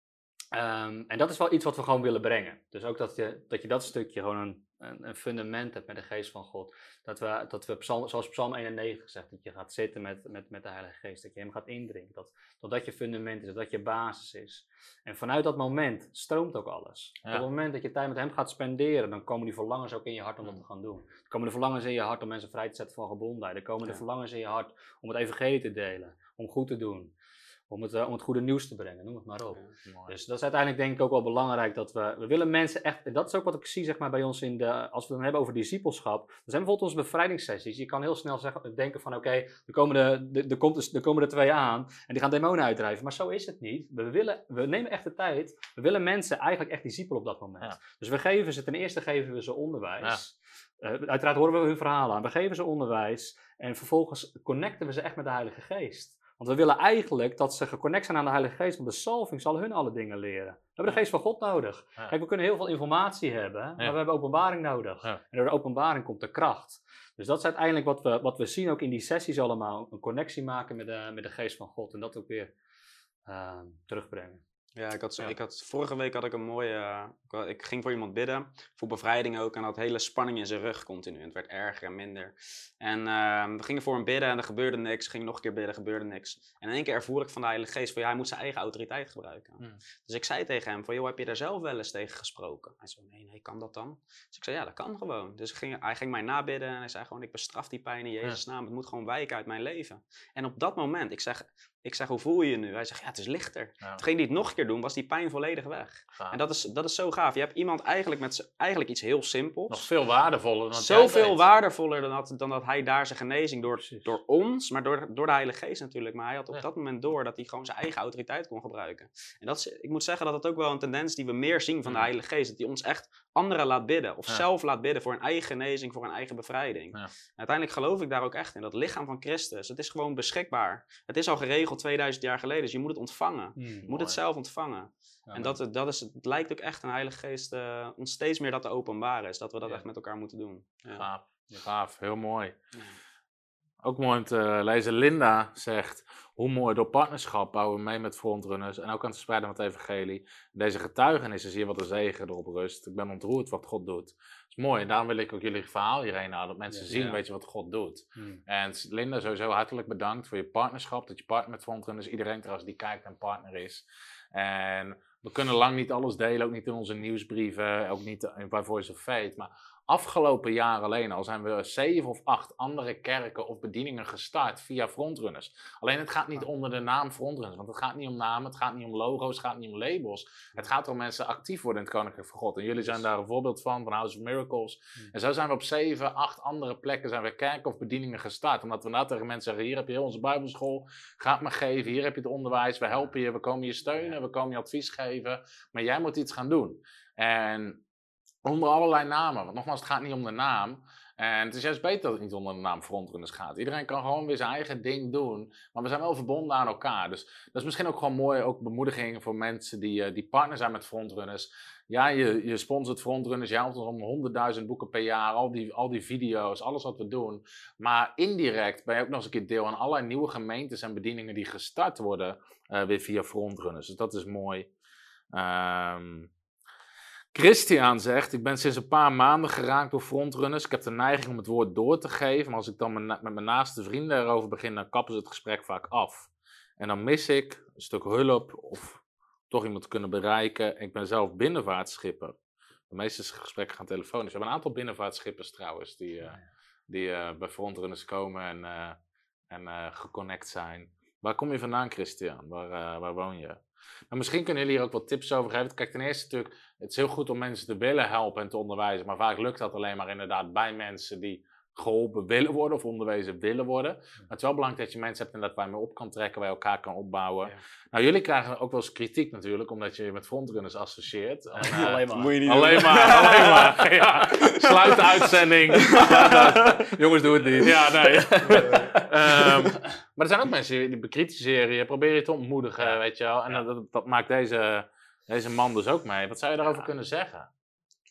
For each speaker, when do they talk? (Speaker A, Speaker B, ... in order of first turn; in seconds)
Speaker A: 0.5-27.1, 27.7-72.5, 73.3-74.4, 133.6-133.9, 135.3-135.6, 156.7-157.1, 158.2-158.4, 271.5-272.8, 275.9-279.5
Speaker B: 74.8-109.8, 110.8-141.0, 271.7-276.3
Speaker C: 106.1-106.4, 109.7-111.4, 133.9-134.2, 140.9-142.5, 143.8-197.8, 198.4-224.7, 225.3-226.3, 227.3-242.4, 242.9-249.0, 249.5-287.5